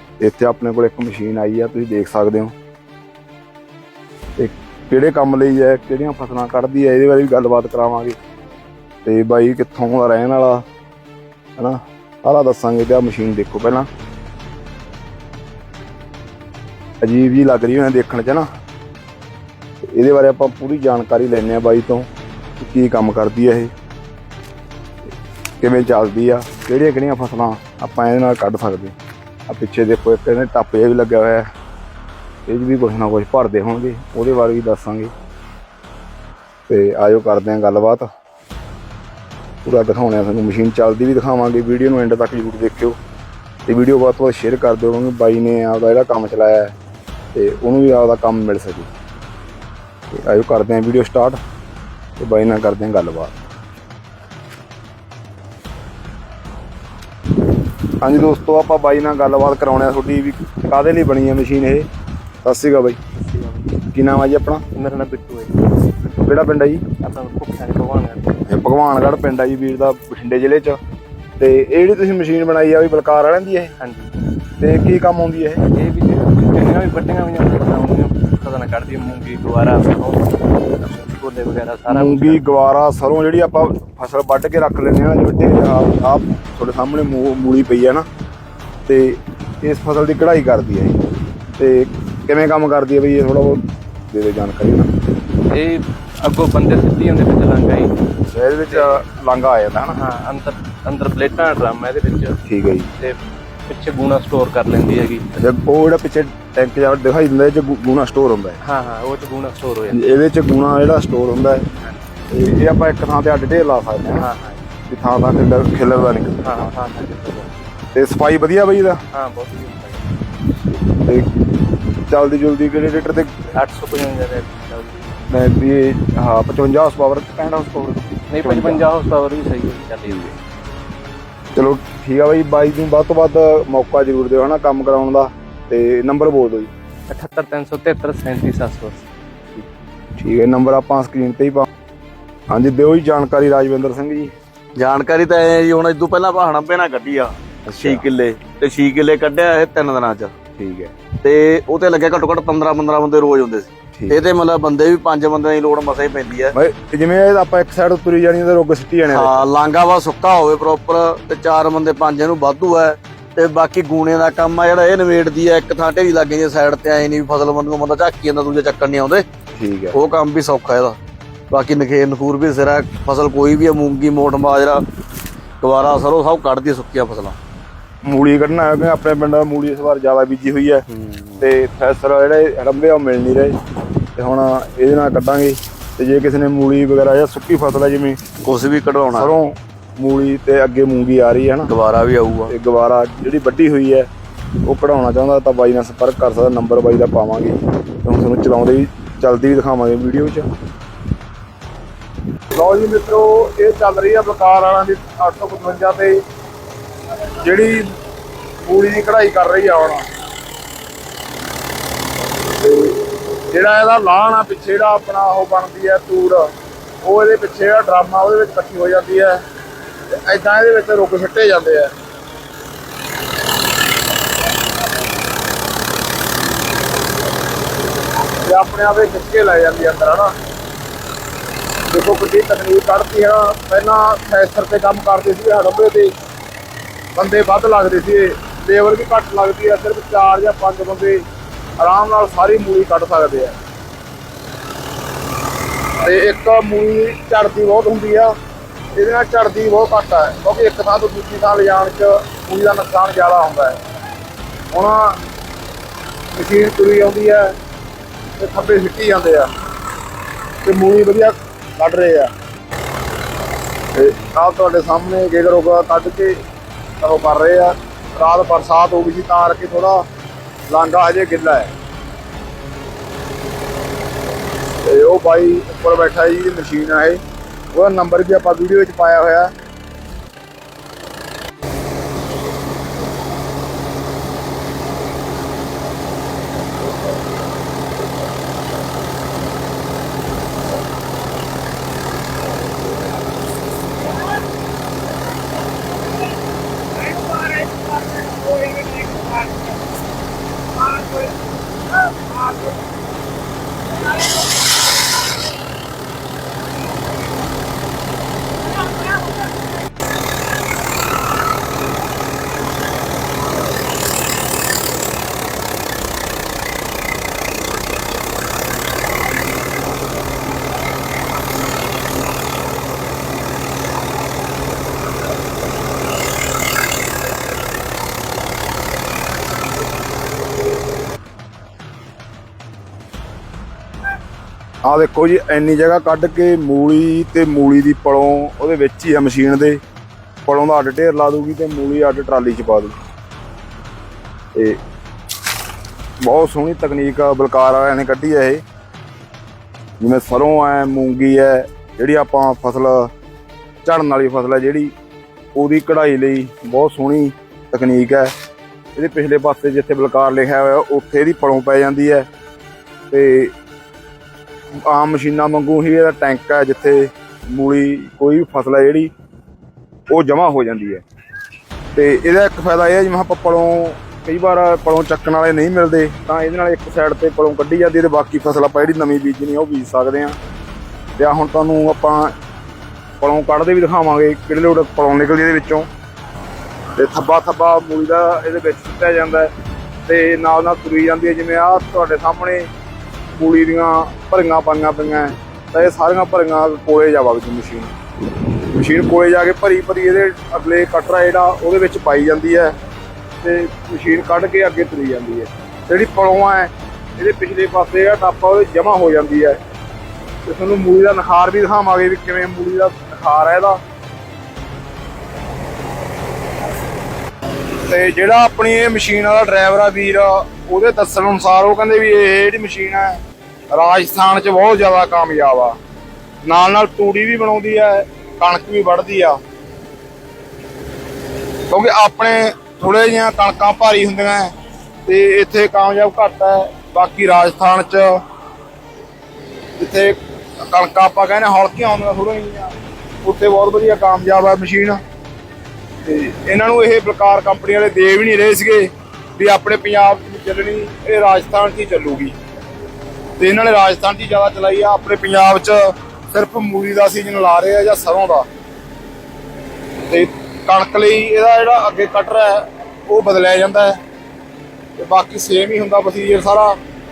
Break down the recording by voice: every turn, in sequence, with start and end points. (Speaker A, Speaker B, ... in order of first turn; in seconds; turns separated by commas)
Speaker A: 0.2-2.5, Speaker A: 4.4-8.2, Speaker A: 9.0-10.6, Speaker A: 11.6-13.9, Speaker A: 17.0-18.5, Speaker A: 19.9-22.1, Speaker A: 22.6-23.7, Speaker A: 25.6-28.9, Speaker A: 29.5-31.5, Speaker A: 32.5-35.1, Speaker A: 36.7-38.1, Speaker A: 39.6-43.0, Speaker A: 43.6-46.7, Speaker A: 47.3-48.9, Speaker A: 50.1-51.4, Speaker A: 52.2-53.4, Speaker A: 58.0-61.9, Speaker A: 62.4-63.0, Speaker A: 63.9-64.6, Speaker B: 64.7-65.6, Speaker A: 66.2-66.8, Speaker B: 67.0-68.3, Speaker A: 68.5-70.8, Speaker A: 71.4-73.7, Speaker B: 73.8-74.1, Speaker A: 74.6-75.6, Speaker B: 75.6-82.4, Speaker A: 81.9-88.0, Speaker A: 88.9-91.0, Speaker A: 91.6-94.9, Speaker B: 95.4-97.9, Speaker A: 98.3-100.0, Speaker B: 98.7-99.0, Speaker B: 99.9-102.4, Speaker A: 102.4-102.9, Speaker B: 103.0-105.3, Speaker A: 105.3-108.6, Speaker B: 108.6-110.0, Speaker A: 109.9-111.6, Speaker A: 112.3-114.3, Speaker B: 114.2-114.6, Speaker A: 114.9-116.6, Speaker B: 116.4-117.5, Speaker A: 117.9-119.0, Speaker B: 119.1-120.1, Speaker A: 120.6-123.3, Speaker B: 123.5-125.1, Speaker A: 125.3-128.8, Speaker B: 128.3-130.3, Speaker A: 130.1-130.3, Speaker A: 131.5-136.7, Speaker B: 137.1-139.0, Speaker A: 140.2-141.7, Speaker A: 142.5-144.3, Speaker C: 144.8-150.3, Speaker A: 147.7-148.1, Speaker A: 150.6-150.9, Speaker C: 151.2-156.5, Speaker A: 156.5-159.5, Speaker C: 159.1-169.2, Speaker A: 169.5-170.0, Speaker C: 169.9-171.0, Speaker C: 171.5-174.8, Speaker C: 175.6-177.3, Speaker A: 178.0-180.8, Speaker C: 180.9-181.4, Speaker A: 181.4-183.6, Speaker A: 184.2-188.2, Speaker C: 188.4-189.3, Speaker A: 189.1-191.7, Speaker C: 191.7-192.5, Speaker A: 192.5-194.1, Speaker A: 194.6-200.5, Speaker A: 202.5-206.2, Speaker A: 207.4-207.9, Speaker A: 208.6-210.1, Speaker A: 212.5-216.5, Speaker A: 217.0-219.4, Speaker A: 220.1-221.9, Speaker A: 228.4-230.3, Speaker A: 231.9-236.1, Speaker A: 237.1-241.2, Speaker A: 241.8-243.5, Speaker A: 246.0-248.3, Speaker A: 248.9-253.8, Speaker A: 254.7-255.2, Speaker A: 256.3-257.5, Speaker A: 258.4-259.5, Speaker A: 260.6-262.3, Speaker A: 263.9-266.4, Speaker A: 267.0-270.0, Speaker A: 270.7-271.7, Speaker A: 274.8-277.2, Speaker A: 277.7-279.5, Speaker A: 334.8-339.8, Speaker A: 340.4-342.9, Speaker A: 346.2-348.6, Speaker A: 350.0-353.1, Speaker A: 353.8-354.9, Speaker A: 355.5-358.3, Speaker A: 358.9-362.3, Speaker A: 363.1-363.5, Speaker A: 364.8-369.1, Speaker A: 370.1-371.0, Speaker A: 371.9-380.4, Speaker A: 381.2-382.3, Speaker A: 383.2-385.9, Speaker A: 386.9-389.5, Speaker A: 390.1-392.7, Speaker A: 393.3-397.9, Speaker A: 398.7-402.7, Speaker A: 403.4-409.6, Speaker A: 410.4-413.8, Speaker A: 417.8-423.2, Speaker A: 423.7-425.8, Speaker A: 426.4-429.4, Speaker A: 431.7-434.5, Speaker A: 435.1-438.2, Speaker A: 439.8-442.7, Speaker A: 443.2-445.0, Speaker A: 446.0-452.3, Speaker A: 453.4-458.4, Speaker A: 460.1-464.0, Speaker A: 465.0-466.8